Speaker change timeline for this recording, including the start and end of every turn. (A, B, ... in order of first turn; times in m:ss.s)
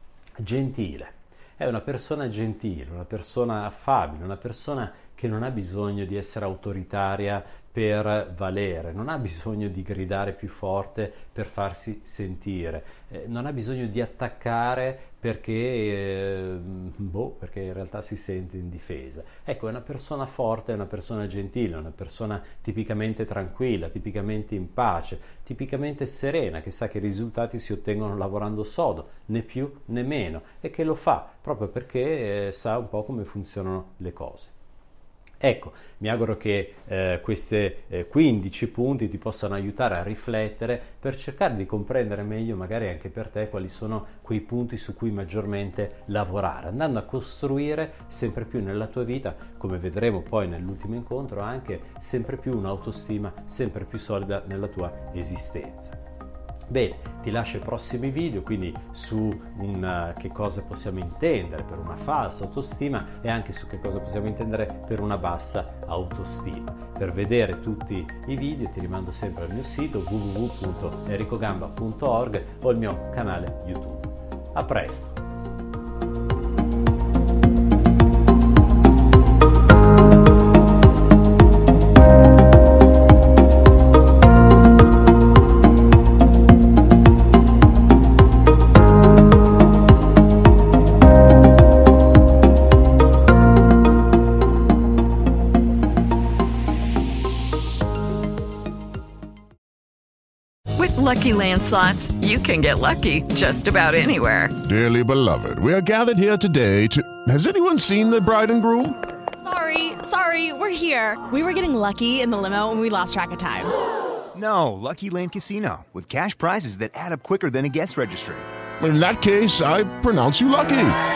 0:00.4-0:34.5 A
0:35.4-0:56.0 A
0:56.7-1:15.2 A
1:40.8-1:44.5 B
1:44.6-1:48.9 C
1:49.4-1:53.7 D
1:54.3-1:58.4 E
1:58.8-2:01.0 C